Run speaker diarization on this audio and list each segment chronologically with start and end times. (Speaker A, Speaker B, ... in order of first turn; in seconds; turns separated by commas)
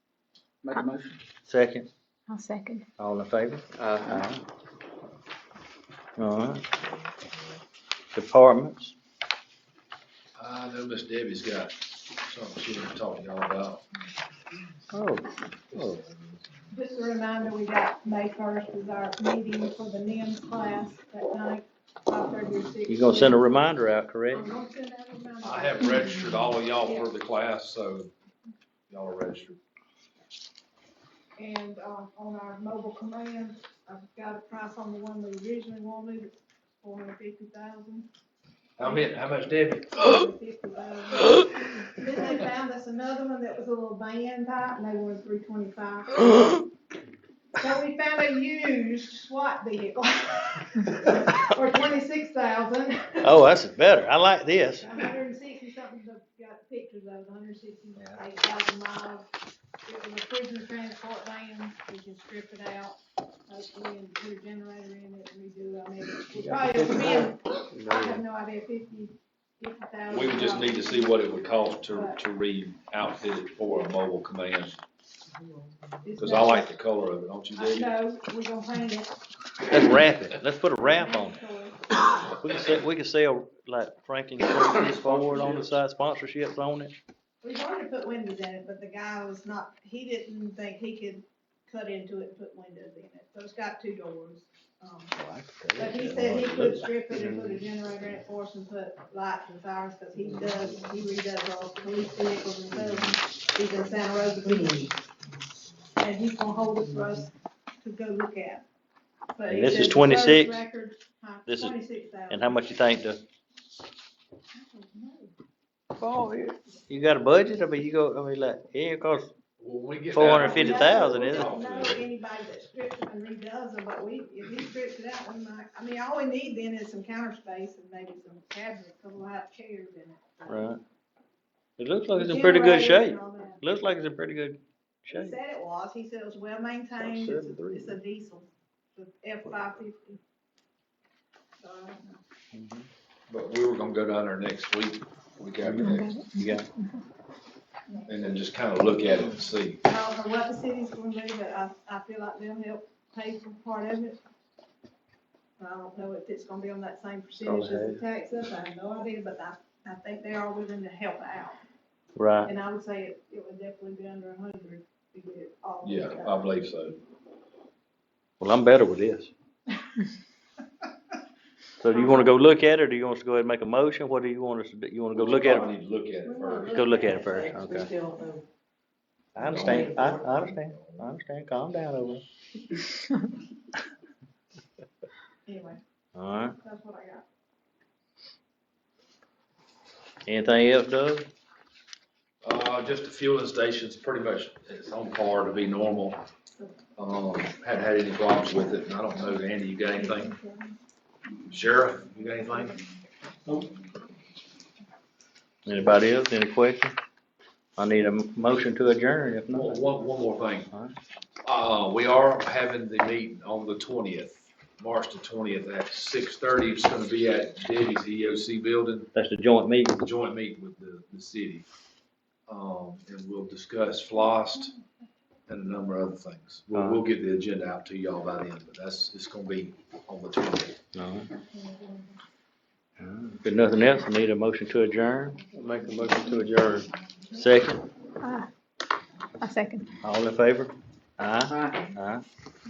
Speaker A: 0.6-1.2, Speaker B: 1.4-1.9, Speaker C: 2.3-2.8, Speaker B: 3.0-4.4, Speaker A: 3.8-4.2, Speaker B: 6.2-6.7, Speaker B: 8.1-8.9, Speaker D: 10.3-13.8, Speaker B: 14.9-16.1, Speaker E: 16.7-23.4, Speaker B: 22.9-24.5, Speaker E: 24.3-27.1, Speaker D: 25.4-28.1, Speaker D: 28.9-29.6, Speaker E: 31.4-38.1, Speaker D: 38.8-39.9, Speaker E: 38.8-46.6, Speaker E: 47.6-53.3, Speaker B: 53.2-55.0, Speaker E: 54.8-59.3, Speaker B: 58.0-58.2, Speaker E: 59.9-71.3, Speaker D: 70.1-74.8, Speaker E: 71.9-72.2, Speaker E: 76.0-76.7, Speaker D: 76.2-77.9, Speaker E: 77.5-79.2, Speaker B: 79.7-81.4, Speaker E: 80.8-82.2, Speaker B: 82.3-86.9, Speaker D: 84.5-85.8, Speaker E: 87.4-95.2, Speaker B: 95.1-97.5, Speaker E: 95.8-104.9, Speaker E: 106.0-108.6, Speaker E: 109.3-112.6, Speaker B: 109.5-110.6, Speaker B: 111.5-111.7, Speaker B: 112.3-113.2, Speaker E: 114.5-115.3, Speaker B: 116.0-119.3, Speaker D: 119.6-122.1, Speaker B: 120.1-121.5, Speaker E: 120.2-130.7, Speaker B: 130.5-130.8, Speaker B: 131.8-135.3, Speaker E: 132.1-133.6, Speaker E: 135.1-140.2, Speaker B: 137.0-137.9, Speaker E: 141.6-142.2, Speaker B: 142.5-142.9, Speaker D: 143.3-146.2, Speaker B: 145.6-146.7, Speaker C: 145.8-146.5, Speaker D: 148.1-149.8, Speaker E: 149.8-154.2, Speaker E: 155.6-161.6, Speaker B: 157.4-158.0, Speaker B: 162.2-162.5, Speaker E: 162.4-166.5, Speaker D: 165.8-167.0, Speaker B: 168.4-169.3, Speaker B: 171.8-175.7, Speaker D: 175.2-176.9, Speaker E: 176.2-177.2, Speaker B: 176.7-177.9, Speaker F: 176.8-178.4, Speaker D: 179.3-181.1, Speaker B: 179.3-182.2, Speaker F: 179.6-180.2, Speaker E: 185.4-185.8, Speaker B: 186.1-186.6, Speaker E: 186.6-187.2, Speaker B: 190.2-191.3, Speaker D: 192.4-196.2, Speaker D: 197.0-200.3, Speaker E: 199.9-200.7, Speaker D: 201.5-202.8, Speaker B: 205.6-206.9, Speaker B: 207.8-209.8, Speaker D: 209.5-210.7, Speaker D: 211.4-219.1, Speaker B: 219.1-220.1, Speaker D: 220.0-221.7, Speaker D: 222.5-224.7, Speaker D: 225.5-230.8, Speaker B: 226.7-227.0, Speaker B: 230.9-231.3, Speaker E: 231.4-232.1, Speaker B: 233.0-235.4, Speaker A: 235.8-236.7, Speaker B: 236.4-237.8, Speaker C: 238.2-238.5, Speaker C: 239.4-239.9, Speaker B: 240.0-242.2